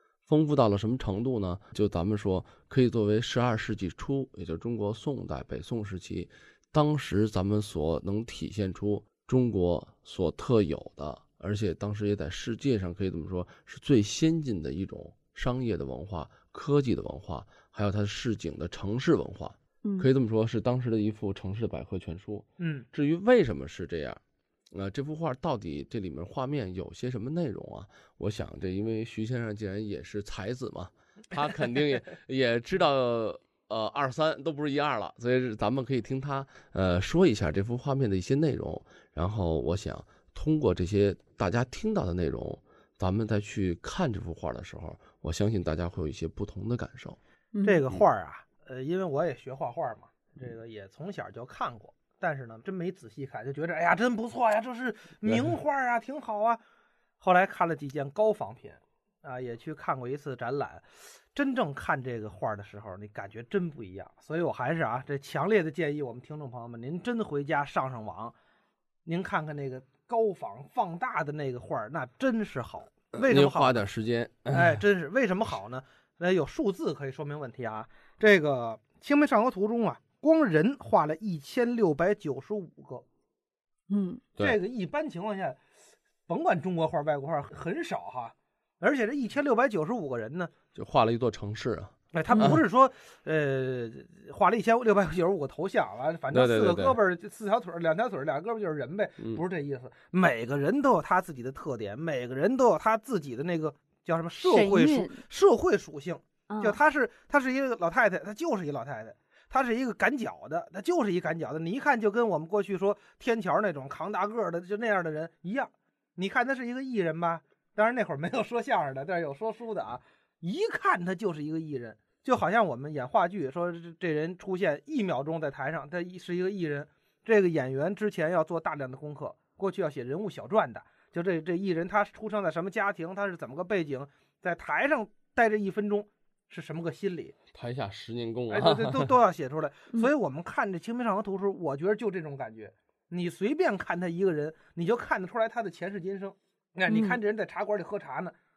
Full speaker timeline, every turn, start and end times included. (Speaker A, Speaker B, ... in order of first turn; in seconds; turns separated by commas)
Speaker A: 0.3-24.2, Speaker B: 22.6-22.9, Speaker A: 24.7-47.2, Speaker C: 47.5-47.8, Speaker B: 47.6-56.6, Speaker A: 55.2-55.5, Speaker B: 57.2-68.3, Speaker B: 69.0-73.8, Speaker A: 73.1-74.8, Speaker B: 74.5-83.0, Speaker C: 83.9-84.2, Speaker B: 84.4-85.6, Speaker B: 86.3-90.5, Speaker A: 90.7-92.6, Speaker B: 92.1-137.3, Speaker C: 92.3-92.6, Speaker A: 96.3-97.0, Speaker C: 104.4-105.2, Speaker C: 106.5-106.8, Speaker A: 137.5-139.2, Speaker B: 138.5-148.3, Speaker C: 146.9-147.2